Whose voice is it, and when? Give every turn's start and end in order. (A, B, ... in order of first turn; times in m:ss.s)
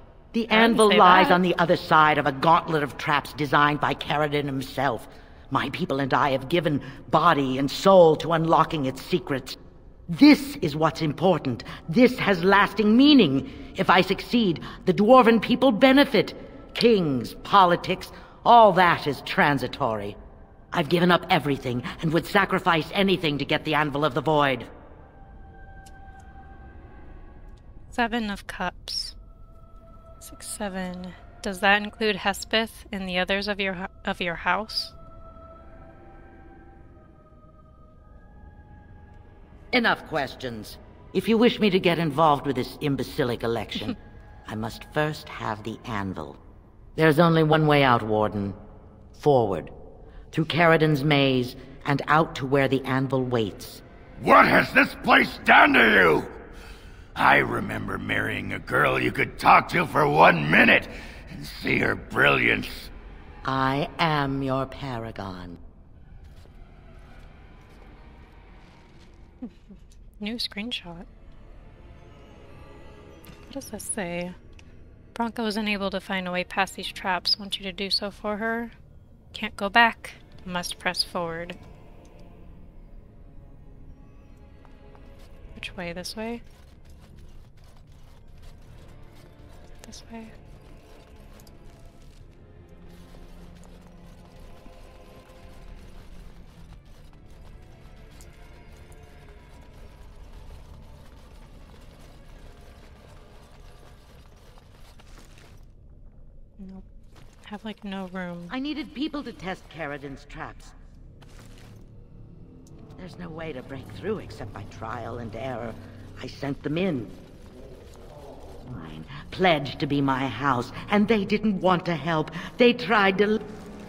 0:00.3-0:09.6 A
0:00.5-0:01.4 B
0:10.1-0:20.2 A
0:20.7-0:24.7 A
0:27.9-0:29.2 B
0:30.2-0:35.0 B
0:39.7-0:46.4 A
0:47.0-0:48.6 A
0:49.2-0:49.7 A
0:50.3-0:53.8 A
0:54.2-0:56.3 C
0:57.2-1:02.9 C
1:03.4-1:05.6 A
1:10.2-1:11.1 B
1:13.5-1:14.4 B
1:15.1-1:18.8 B
1:19.3-1:21.6 B
1:25.6-1:26.4 B
1:29.8-1:30.3 B
1:46.6-1:46.8 B
1:47.5-1:48.6 B
1:48.5-1:50.8 A
1:53.0-1:57.2 A
1:58.6-2:03.4 A